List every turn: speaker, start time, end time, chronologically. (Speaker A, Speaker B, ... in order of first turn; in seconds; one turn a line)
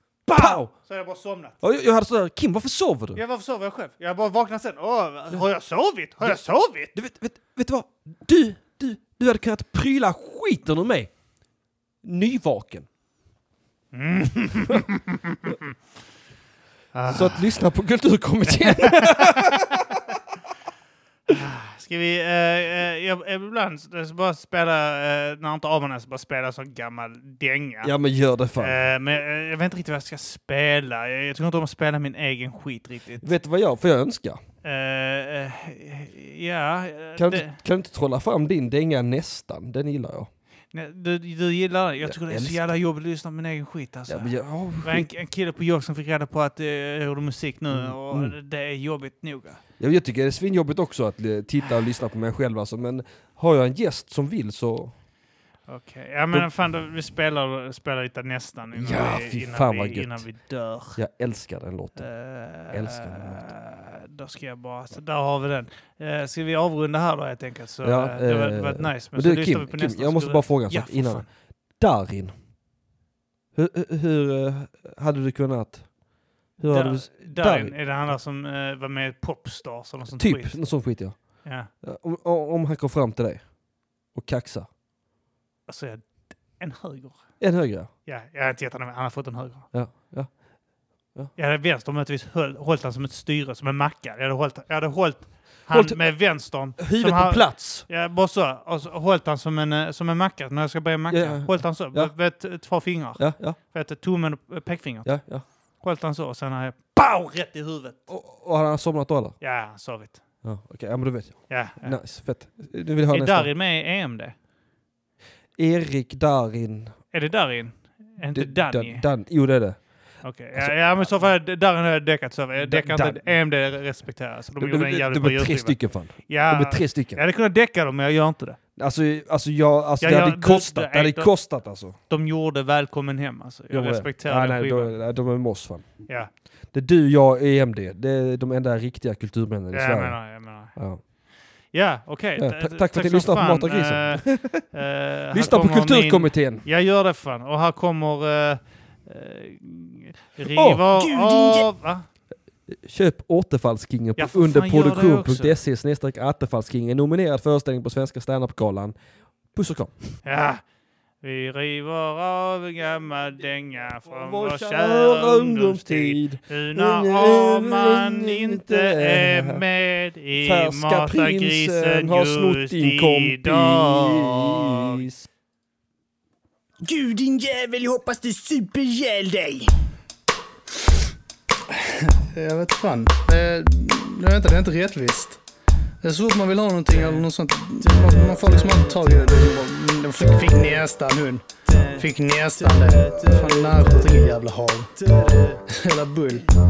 Speaker A: 0.3-0.7
Speaker B: 0.3-1.6
Speaker A: 1.6-3.2
Speaker B: 3.1-7.0
Speaker A: 6.9-11.1
Speaker A: 12.0-12.9
Speaker B: 13.9-15.7
Speaker B: 16.9-17.5
Speaker A: 17.1-20.2
Speaker B: 18.5-19.6
Speaker B: 21.3-27.9
Speaker A: 27.8-28.8
Speaker B: 28.6-33.3
Speaker A: 33.2-34.4
Speaker B: 34.6-37.6
Speaker A: 37.2-40.3
Speaker B: 40.7-49.6
Speaker A: 42.0-42.7
Speaker A: 44.1-45.1
Speaker A: 47.7-48.4
Speaker A: 49.8-54.9
Speaker B: 55.7-61.0
Speaker A: 58.7-60.3
Speaker A: 61.0-62.1
Speaker B: 62.0-71.3
Speaker A: 62.7-63.5
Speaker A: 67.8-71.3
Speaker A: 71.8-72.3
Speaker A: 73.5-75.9
Speaker A: 76.6-77.8
Speaker B: 76.6-80.6
Speaker A: 80.2-83.4
Speaker B: 81.4-81.7
Speaker A: 84.1-84.7
Speaker B: 85.7-87.2
Speaker A: 87.4-87.9
Speaker B: 88.0-89.7
Speaker A: 89.7-90.3
Speaker B: 91.4-105.1
Speaker A: 95.7-96.0
Speaker A: 96.8-97.9
Speaker A: 101.1-102.1
Speaker A: 103.2-103.6
Speaker A: 105.0-105.5
Speaker B: 105.8-108.0
Speaker A: 108.1-109.4
Speaker B: 109.4-110.2
Speaker A: 110.4-113.5
Speaker B: 111.5-112.0
Speaker B: 113.1-114.4
Speaker A: 115.6-117.0
Speaker B: 117.1-119.0
Speaker A: 118.2-119.8
Speaker B: 120.2-125.8
Speaker A: 120.5-121.3
Speaker A: 122.6-123.3
Speaker A: 124.6-127.2
Speaker B: 126.3-128.6
Speaker A: 128.8-132.0
Speaker B: 130.0-131.3
Speaker B: 132.1-134.9
Speaker A: 133.7-135.9
Speaker A: 136.7-140.2
Speaker B: 139.7-140.8
Speaker A: 140.8-141.0
Speaker B: 141.7-152.1
Speaker A: 142.4-144.7
Speaker A: 145.3-146.7
Speaker A: 150.4-150.8
Speaker C: 150.9-151.7
Speaker A: 152.7-158.9
Speaker B: 154.2-155.6
Speaker A: 159.5-160.2
Speaker B: 160.2-160.6
Speaker B: 161.2-175.0
Speaker A: 164.1-169.6
Speaker A: 170.3-175.3
Speaker C: 176.8-179.7
Speaker D: 181.7-185.4
Speaker D: 186.0-191.4
Speaker C: 186.9-187.2
Speaker C: 187.8-189.7
Speaker C: 190.2-190.8
Speaker C: 191.7-194.3
Speaker D: 192.0-194.9
Speaker C: 195.0-195.6
Speaker D: 195.7-196.4